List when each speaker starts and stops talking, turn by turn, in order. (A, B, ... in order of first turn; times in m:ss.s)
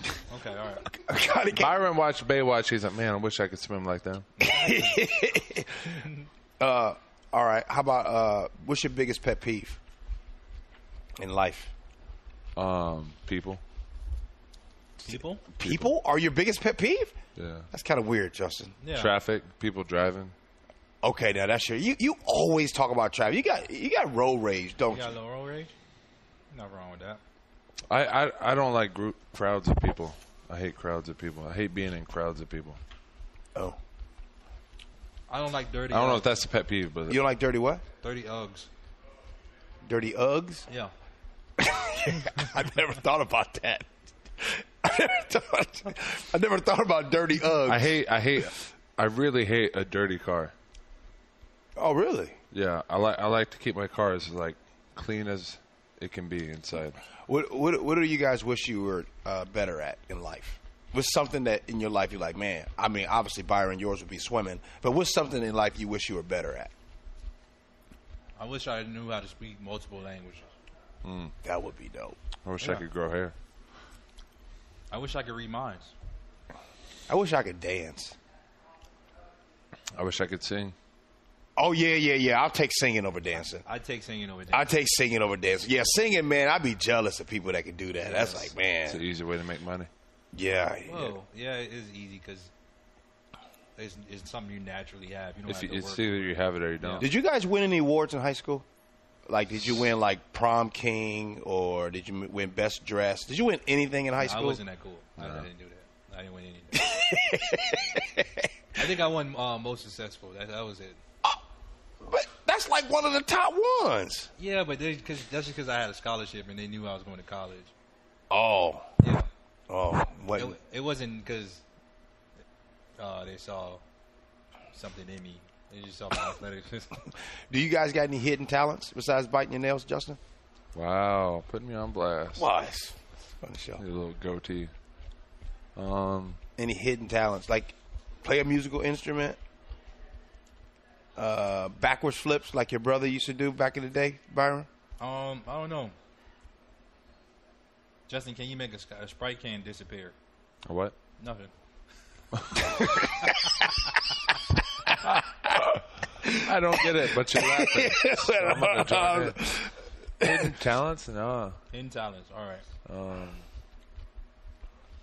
0:00.3-0:01.0 A
0:00.9-0:01.8 B
0:01.5-0:04.3 C
0:04.4-0:05.0 A
0:04.4-0:06.0 B
0:05.8-0:06.3 A
0:06.6-0:09.8 B
0:11.2-0:11.7 B
0:12.6-0:13.6 C
0:15.0-0:15.4 A
0:15.1-0:17.1 B
0:15.6-0:15.9 C
0:17.4-0:17.7 C
0:17.7-0:18.8 B
0:18.8-0:19.1 A
0:18.9-0:20.3 C
0:21.0-0:25.2 B
0:24.9-0:25.7 A
0:26.5-0:27.2 A
0:27.9-0:32.8 C
0:35.3-0:36.3 A
0:35.9-0:37.2 C
0:37.1-0:37.8 B
0:38.0-0:38.7 A
0:39.8-0:40.6 B
0:41.6-0:48.0 B
0:47.6-0:50.5 C
0:51.8-0:52.4 B
0:52.5-0:57.0 C
0:57.3-1:06.7 B
1:08.4-1:10.5 A
1:11.0-1:11.3 C
1:11.4-1:12.2 B
1:12.4-1:13.3 C
1:14.9-1:15.9 A
1:17.1-1:18.2 B
1:19.9-1:20.7 C
1:21.6-1:23.6 B
1:23.6-1:24.7 A
1:24.5-1:29.0 B
1:28.0-1:28.5 A
1:28.9-1:29.9 C
1:30.3-1:31.1 B
1:30.8-1:32.5 A
1:33.8-1:37.1 A
1:35.4-1:37.1 C
1:37.0-1:38.6 B
1:39.3-1:44.6 B
1:44.2-1:46.8 A
1:45.2-1:45.5 C
1:46.7-1:49.0 B
1:48.8-1:51.0 A
1:52.0-1:54.3 B
1:54.4-1:57.7 A
1:58.3-1:58.9 B
1:59.0-1:59.3 A
1:59.7-2:00.6 B
2:00.4-2:01.6 A
2:03.0-2:03.8 A
2:04.7-2:06.9 A
2:07.5-2:10.2 B
2:10.7-2:12.4 C
2:12.4-2:13.8 B
2:13.8-2:14.7 C
2:15.8-2:16.4 C
2:16.6-2:19.4 B
2:21.2-2:24.7 B
2:25.0-2:25.9 A
2:28.1-2:30.1 A
2:30.6-2:30.9 C
2:31.2-2:31.5 A
2:32.4-2:32.6 C
2:34.8-2:40.6 B
2:36.2-2:39.4 C
2:40.2-2:41.6 C
2:41.7-2:42.6 A
2:42.8-2:43.4 C